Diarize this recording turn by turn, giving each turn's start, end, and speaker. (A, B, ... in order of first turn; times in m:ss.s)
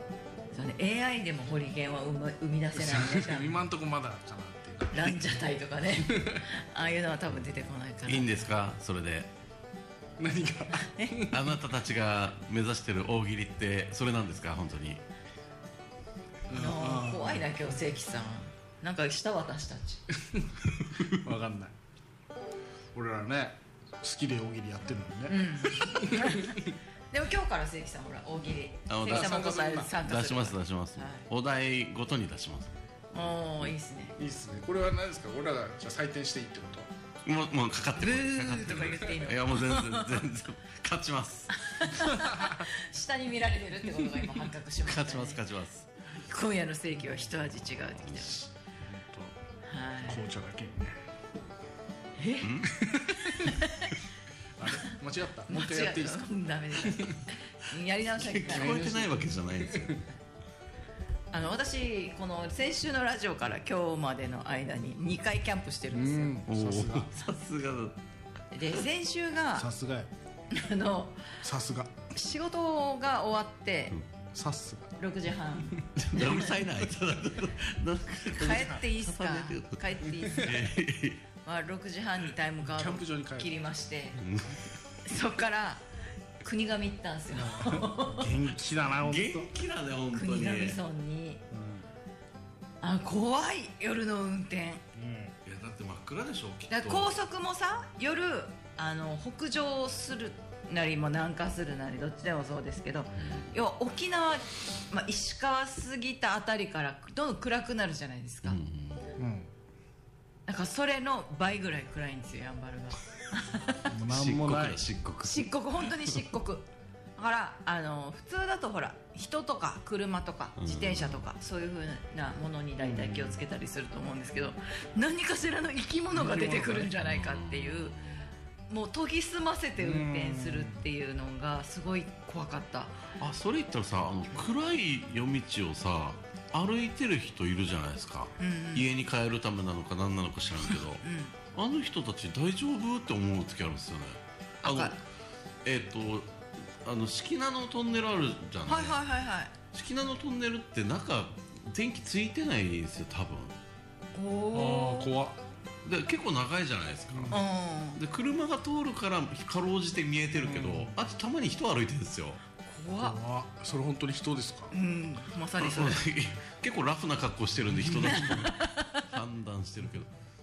0:00.5-0:03.6 A
0:02.7-0:05.2 B
0:04.9-0:08.4 A
0:06.1-0:06.4 B
0:08.1-0:09.3 C
0:10.2-0:11.4 B
0:10.7-0:11.2 A
0:11.3-0:15.0 C
0:16.5-0:17.4 B
0:16.5-0:20.0 A
0:20.2-0:21.8 B
0:22.9-0:26.7 B
0:25.3-0:31.3 A
0:28.9-0:29.3 C
0:29.0-0:30.0 B
0:29.9-0:32.8 C
0:33.1-0:34.2 A
0:34.2-0:36.9 B
0:37.2-0:41.9 C
0:38.0-0:40.2 A
0:41.5-0:45.4 A
0:42.2-0:42.6 B
0:44.8-0:45.9 C
0:46.1-0:48.4 A
0:48.1-0:49.4 B
0:49.6-0:50.2 A
0:50.0-0:51.0 B
0:52.2-0:52.5 A
0:52.4-0:53.4 C
0:52.9-0:53.5 B
0:53.3-0:54.0 A
0:54.6-0:57.2 B
0:55.5-0:58.9 A
0:58.2-1:00.1 C
0:58.5-1:00.0 B
1:01.3-1:06.4 A
1:05.9-1:07.1 B
1:06.5-1:08.0 C
1:08.5-1:09.7 A
1:09.6-1:10.1 B
1:10.5-1:11.4 A
1:11.4-1:11.9 B
1:12.1-1:14.0 A
1:14.3-1:15.0 B
1:15.0-1:16.5 A
1:16.0-1:21.2 C
1:18.3-1:20.8 A
1:21.4-1:24.2 A
1:22.6-1:23.5 B
1:24.2-1:24.7 C
1:25.0-1:25.8 A
1:26.4-1:28.4 A
1:27.4-1:29.5 B
1:29.0-1:30.8 C
1:30.1-1:31.4 A
1:31.5-1:31.9 B
1:32.8-1:34.8 A
1:35.0-1:35.3 B
1:35.4-1:37.2 C
1:36.7-1:48.6 A
1:43.2-1:43.5 C
1:48.4-1:49.0 C
1:49.2-1:49.5 B
1:50.5-1:53.9 A
1:53.9-1:54.8 B
1:54.0-1:56.2 C
1:55.2-1:56.6 A
1:57.2-2:08.0 A
2:00.6-2:01.2 C
2:02.8-2:03.4 B
2:06.1-2:06.9 B
2:07.0-2:08.2 C
2:08.7-2:13.0 A
2:09.8-2:10.8 B
2:13.2-2:25.0 C
2:18.4-2:18.9 A
2:21.0-2:21.4 A
2:24.6-2:25.0 A
2:25.6-2:29.0 C
2:28.7-2:29.5 A
2:29.7-2:33.6 C
2:34.2-2:35.1 A
2:34.5-2:35.4 B
2:35.8-2:37.4 C
2:37.1-2:37.4 B
2:37.3-2:38.0 A
2:38.0-2:42.4 C
2:40.4-2:41.0 B
2:42.6-2:43.2 A
2:43.0-2:44.7 B
2:44.7-2:46.1 A
2:45.6-2:50.1 C
2:48.0-2:49.0 A